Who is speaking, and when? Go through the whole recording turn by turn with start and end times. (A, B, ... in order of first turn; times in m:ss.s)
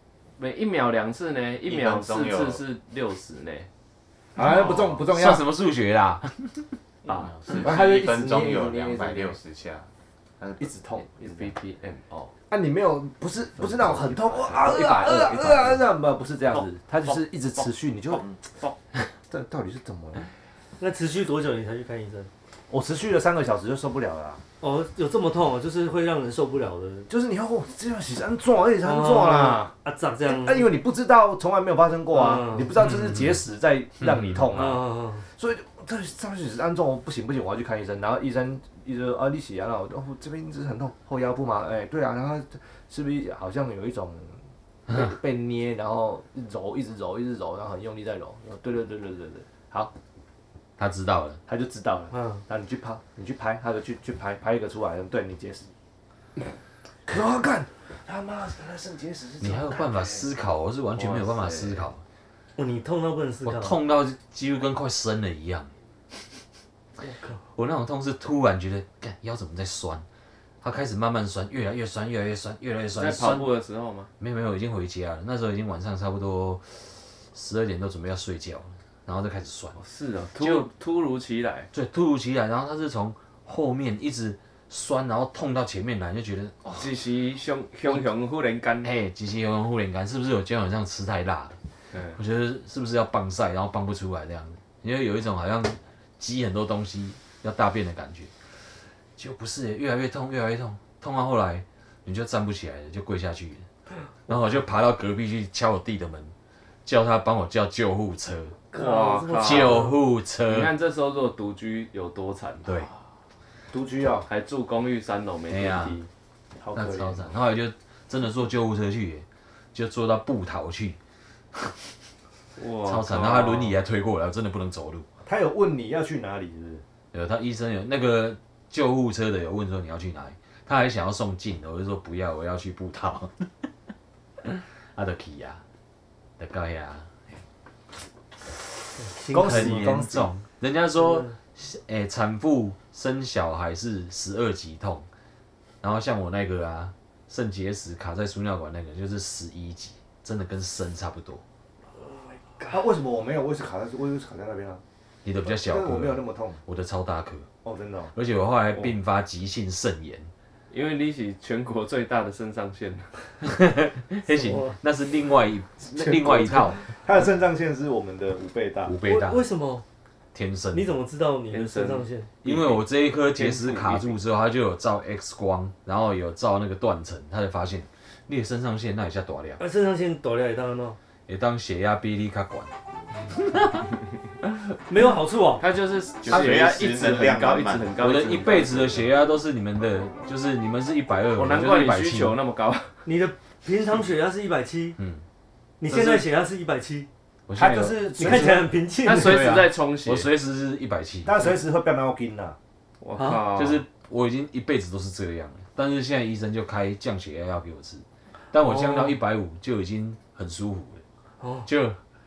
0:00.4-0:03.7 A
0:01.6-0:02.6 B
0:04.4-0:05.4 C
0:04.4-0:05.1 B
0:05.1-0:06.7 D
0:07.0-0:09.9 B
0:07.1-0:07.4 A
0:07.6-0:09.4 C
0:10.4-0:10.7 B
0:10.6-0:11.5 C
0:11.1-0:12.3 A
0:12.5-0:18.2 C
0:13.8-0:15.8 A
0:16.5-0:17.2 A
0:19.3-0:20.3 C
0:20.8-0:22.3 E
0:22.7-0:24.4 C
0:24.6-0:27.1 E
0:27.1-0:29.7 C
0:28.8-0:30.7 E
0:30.2-0:34.8 C
0:32.1-0:32.7 E
0:32.8-0:33.4 D
0:34.5-0:35.2 E
0:35.4-0:49.9 C
0:50.8-0:51.4 D
0:51.5-0:55.7 C
0:52.1-0:52.4 E
0:57.1-1:00.3 C
0:59.4-1:02.0 D
1:01.2-1:01.5 A
1:02.6-1:03.8 E
1:03.4-1:05.7 D
1:07.0-1:07.4 E
1:07.5-1:10.0 D
1:10.6-1:13.5 D
1:13.0-1:14.1 A
1:14.2-1:19.8 D
1:19.8-1:21.7 A
1:20.4-1:20.7 D
1:21.7-1:27.0 D
1:26.8-1:28.9 A
1:28.8-1:31.6 D
1:31.9-1:32.2 A
1:32.2-1:38.3 D
1:39.2-1:43.6 D
1:44.3-1:46.3 D
1:46.9-1:48.6 D
1:48.7-1:50.0 E
1:48.7-1:49.9 A
1:49.4-1:50.7 D
1:50.5-1:52.7 A
1:53.7-1:54.3 C
1:54.3-1:56.1 A
1:55.5-1:56.0 D
1:56.6-1:57.3 C
1:56.8-2:01.0 D
2:02.6-2:03.8 A
2:02.8-2:05.1 D
2:05.3-2:06.8 C
2:07.1-2:13.4 D
2:14.5-2:15.6 D
2:16.4-2:17.1 D
2:19.0-2:20.0 E
2:19.3-2:20.3 C
2:19.3-2:25.1 D
2:21.0-2:21.4 E
2:25.8-2:31.4 D
2:32.0-2:32.8 E
2:32.7-2:34.8 C
2:35.2-2:37.5 D
2:35.4-2:36.6 C
2:37.6-2:38.1 C
2:38.1-2:40.3 D
2:40.7-2:43.1 A
2:43.4-2:46.8 D
2:44.3-2:44.8 E
2:46.0-2:48.9 C
2:48.8-2:49.5 D
2:49.0-2:49.8 E
2:50.3-2:51.0 D
2:50.7-2:52.4 E
2:51.5-2:52.8 A
2:52.4-2:59.6 D
2:53.4-2:54.2 A
2:59.6-3:01.0 E
3:01.3-3:02.7 D
3:03.5-3:03.8 D
3:04.9-3:05.6 E
3:05.6-3:09.1 A
3:06.2-3:08.0 B
3:06.3-3:06.7 D
3:08.0-3:12.4 D
3:11.4-3:12.9 A
3:13.0-3:15.0 E
3:15.0-3:15.2 D
3:15.8-3:17.1 E
3:15.9-3:16.2 C
3:17.5-3:18.4 D
3:17.6-3:18.7 C
3:18.2-3:19.5 E
3:19.0-3:20.3 A
3:19.1-3:21.4 D
3:21.2-3:22.6 C
3:23.0-3:23.8 A
3:23.2-3:23.4 E
3:23.5-3:31.0 D
3:28.6-3:29.2 E
3:31.4-3:31.7 E
3:31.6-3:32.0 D